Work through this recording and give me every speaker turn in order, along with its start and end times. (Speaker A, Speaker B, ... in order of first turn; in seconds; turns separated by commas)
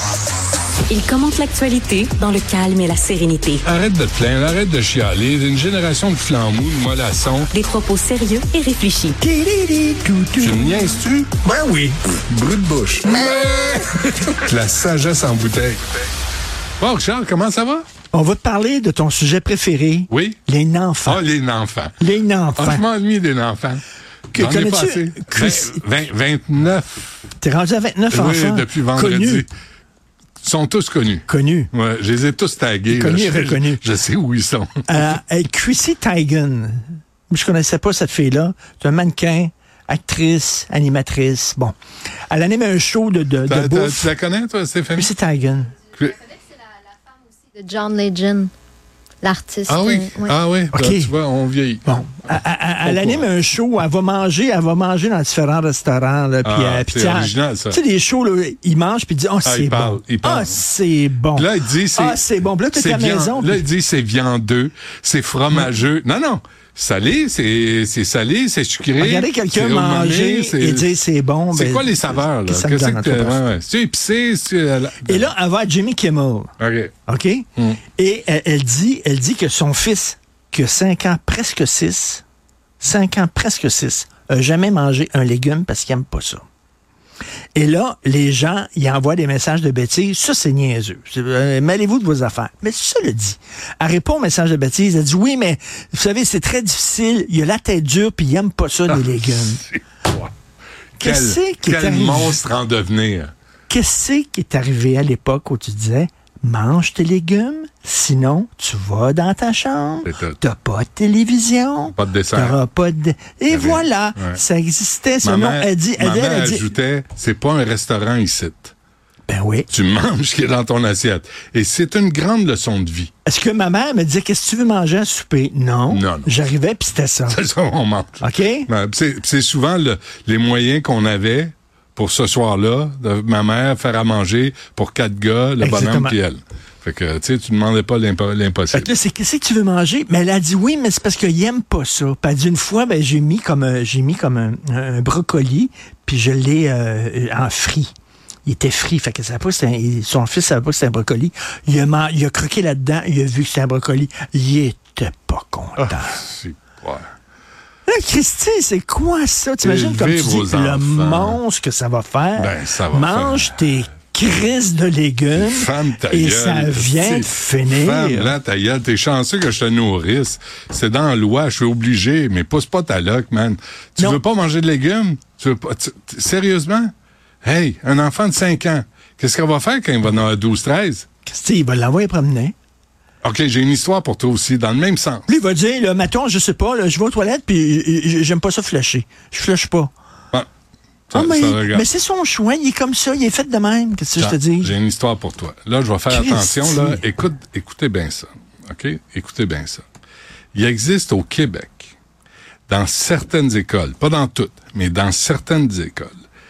Speaker A: 0.9-3.6, Speaker B: 3.6-7.5, Speaker A: 7.5-9.2, Speaker C: 9.2-10.8, Speaker B: 10.4-11.3, Speaker C: 11.4-12.0, Speaker B: 12.3-15.8, Speaker B: 16.8-17.9, Speaker C: 18.1-21.2, Speaker B: 20.1-20.4, Speaker B: 21.0-22.0, Speaker C: 22.0-22.8, Speaker B: 22.6-23.8, Speaker C: 24.3-25.8, Speaker B: 24.3-27.1, Speaker C: 27.4-29.4, Speaker B: 28.1-29.5, Speaker B: 30.4-35.0, Speaker C: 31.3-31.7, Speaker C: 32.9-33.8, Speaker C: 34.9-41.7, Speaker C: 42.3-44.1, Speaker B: 43.4-45.1, Speaker C: 44.9-45.7, Speaker B: 45.9-46.2, Speaker D: 47.5-48.5, Speaker D: 49.2-50.3, Speaker B: 49.7-52.0, Speaker C: 50.7-51.1, Speaker C: 51.8-63.6, Speaker B: 52.8-53.3, Speaker B: 56.4-57.8, Speaker B: 59.4-60.6, Speaker B: 61.3-62.2, Speaker B: 62.7-70.9, Speaker C: 69.0-73.5, Speaker B: 71.5-75.3, Speaker C: 75.0-76.5, Speaker B: 76.6-76.9, Speaker C: 77.1-77.4, Speaker C: 78.0-82.2, Speaker C: 82.8-86.4, Speaker C: 87.5-99.6, Speaker B: 98.9-100.3, Speaker B: 101.0-103.3, Speaker C: 101.0-102.4, Speaker C: 103.7-116.7, Speaker B: 110.0-110.4, Speaker B: 111.9-112.6, Speaker B: 113.5-114.4, Speaker B: 115.2-118.7, Speaker C: 119.3-119.7, Speaker B: 119.7-123.1, Speaker C: 123.2-127.4, Speaker B: 125.9-126.3, Speaker B: 127.3-138.9, Speaker C: 128.2-128.7, Speaker C: 135.6-136.2, Speaker C: 138.7-147.9, Speaker C: 148.4-156.2, Speaker B: 155.8-157.1, Speaker C: 157.9-168.3, Speaker B: 159.6-161.4, Speaker B: 162.4-163.6, Speaker B: 165.3-176.9, Speaker B: 177.4-181.1, Speaker C: 181.2-182.5, Speaker B: 183.2-185.3, Speaker C: 185.3-189.9, Speaker B: 191.1-191.8, Speaker C: 191.1-194.7, Speaker B: 194.2-199.8, Speaker C: 196.1-197.0, Speaker B: 200.5-201.9, Speaker B: 202.7-206.2